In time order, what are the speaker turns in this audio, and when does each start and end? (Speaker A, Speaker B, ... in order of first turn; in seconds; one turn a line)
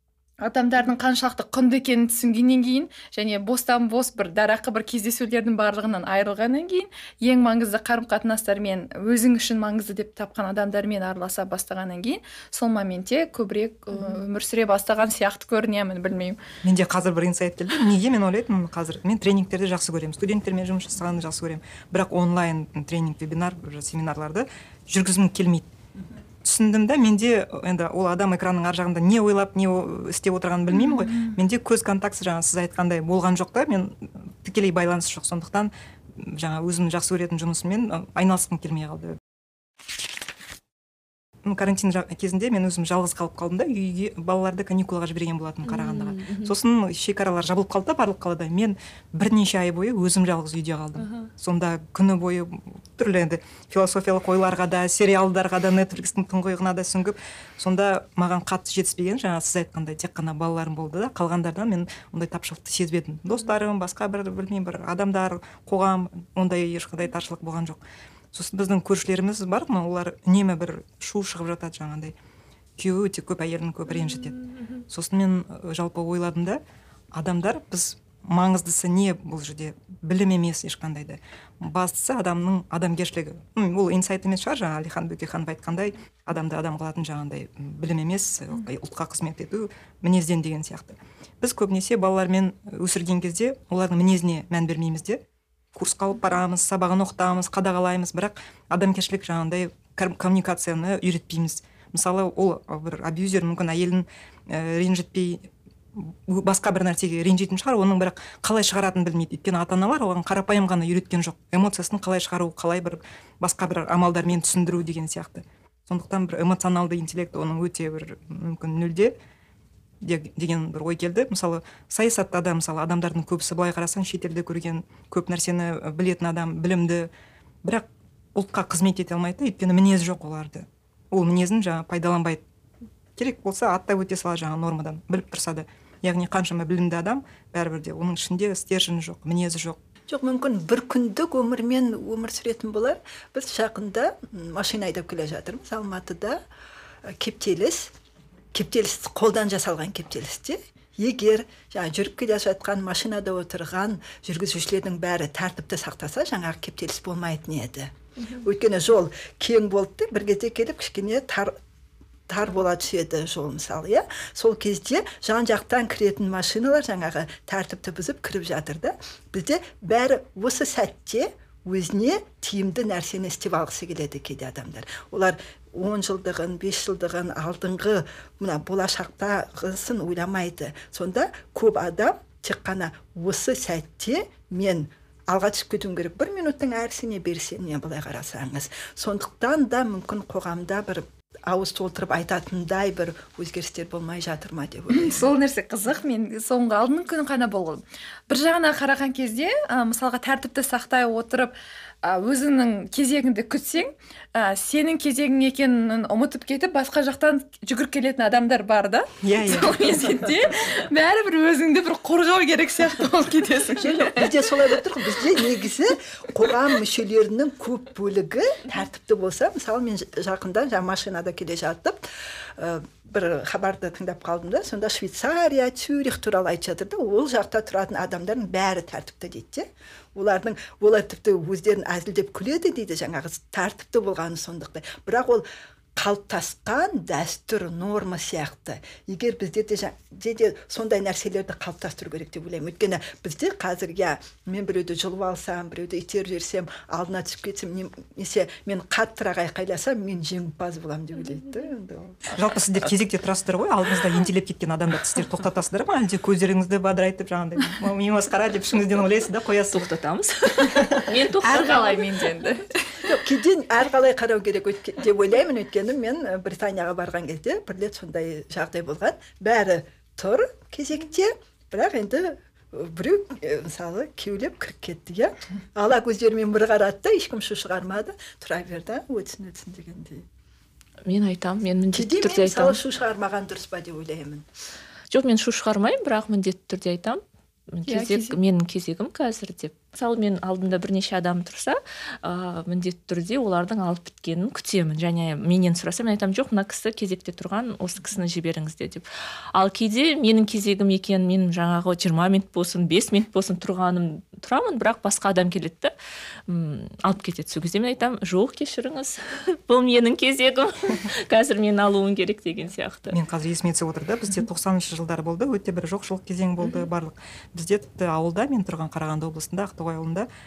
Speaker A: 0.4-16.4
Speaker B: 16.6-25.7
Speaker B: 26.4-39.2
Speaker A: 30.7-31.4
Speaker B: 41.4-67.8
Speaker C: 45.6-46.5
Speaker C: 51.0-51.3
Speaker B: 68.3-72.1
Speaker B: 72.8-76.6
Speaker B: 77.1-95.2
Speaker B: 95.7-119.1
Speaker B: 120.0-127.1
Speaker B: 127.6-132.4
Speaker B: 133.2-139.8
Speaker D: 140.1-146.4
Speaker D: 147.1-147.9
Speaker D: 148.5-161.5
Speaker D: 162.3-195.3
Speaker A: 194.9-214.5
Speaker B: 209.2-210.2
Speaker D: 213.8-222.0
Speaker D: 222.6-235.4
Speaker D: 235.9-252.3
Speaker B: 252.3-259.9
Speaker C: 259.7-262.1
Speaker A: 260.8-263.1
Speaker D: 263.0-280.2
Speaker C: 281.1-282.8
Speaker D: 281.9-284.5
Speaker C: 285.1-287.2
Speaker C: 287.7-305.9
Speaker A: 287.9-288.4
Speaker C: 306.5-313.1
Speaker B: 313.1-320.3